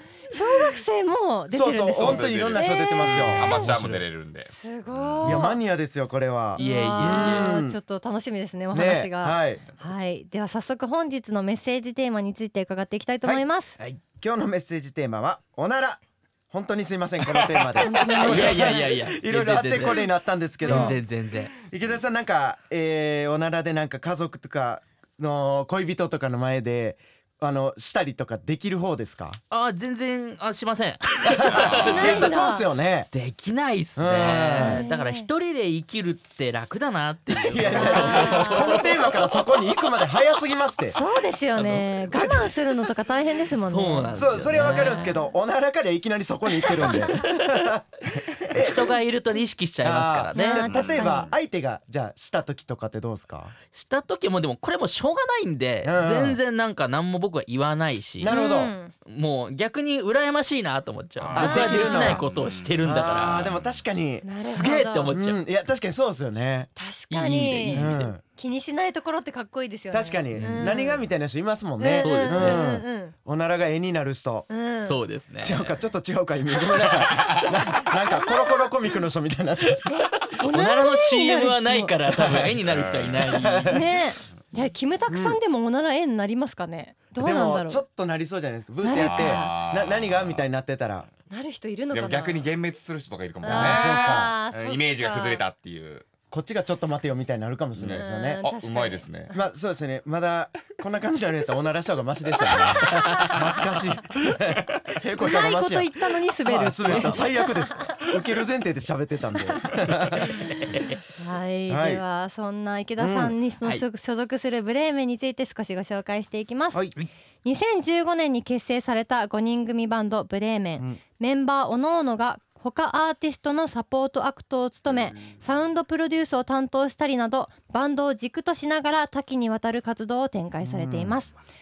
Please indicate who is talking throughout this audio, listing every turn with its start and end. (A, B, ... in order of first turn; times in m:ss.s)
0:00.3-0:03.7 A
0:01.5-0:03.5 B
0:02.0-0:05.5 C
0:03.3-0:04.0 D
0:04.5-0:05.6 A
0:05.2-0:07.8 B
0:06.6-0:07.5 D
0:06.6-0:13.8 A
0:08.7-0:09.6 B
0:14.2-0:16.0 B
0:16.5-0:21.0 B
0:17.7-0:18.8 A
0:18.2-0:20.1 D
0:20.6-0:21.5 D
0:20.7-0:21.0 A
0:21.6-0:29.4 B
0:29.5-0:32.3 D
0:31.4-0:33.1 B
0:31.5-0:32.1 C
0:31.8-0:32.6 A
0:33.0-0:39.5 D
0:34.0-0:34.8 B
0:34.5-0:35.3 A
0:37.4-0:41.0 B
0:37.7-0:39.0 A
0:40.9-0:45.3 A
0:41.5-0:42.2 D
0:42.1-0:42.9 B
0:43.5-0:45.1 D
0:44.1-0:48.9 B
0:46.6-0:47.1 A
0:46.8-0:47.3 D
0:48.5-0:50.7 D
0:49.8-0:53.5 B
0:50.3-0:51.3 A
0:50.6-0:51.2 C
0:53.7-0:58.4 D
0:55.8-0:56.4 B
0:58.2-0:58.7 B
0:58.2-0:58.9 A
0:59.0-1:03.5 D
1:01.2-1:03.8 C
1:01.3-1:02.2 B
1:01.4-1:02.2 A
1:02.8-1:04.3 B
1:04.2-1:05.1 A
1:04.4-1:05.4 D
1:05.1-1:06.7 B
1:06.8-1:11.1 A
1:07.1-1:08.1 D
1:07.7-1:08.2 B
1:09.9-1:14.5 B
1:10.3-1:10.8 D
1:11.8-1:13.1 A
1:12.0-1:12.6 D
1:14.5-1:15.0 A
1:14.8-1:15.8 D
1:15.4-1:19.8 B
1:16.6-1:17.1 A
1:18.1-1:18.7 A
1:19.7-1:23.8 D
1:19.8-1:21.9 A
1:22.1-1:22.5 B
1:22.6-1:23.4 C
1:23.3-1:23.9 B
1:23.6-1:27.8 A
1:25.1-1:25.4 B
1:27.2-1:31.0 B
1:28.8-1:29.6 A
1:28.9-1:30.5 C
1:31.3-1:32.5 A
1:31.9-1:36.1 C
1:33.4-1:35.4 A
1:33.4-1:34.3 B
1:36.3-1:38.5 B
1:37.7-1:39.3 C
1:38.0-1:39.4 A
1:39.3-1:50.4 B
1:42.4-1:43.6 A
1:45.2-1:48.0 A
1:46.8-1:47.2 D
1:50.4-1:50.9 D
1:51.1-1:56.9 A
1:51.7-1:52.0 B
1:53.0-1:53.4 B
1:57.4-2:11.4 A
2:10.6-2:11.2 B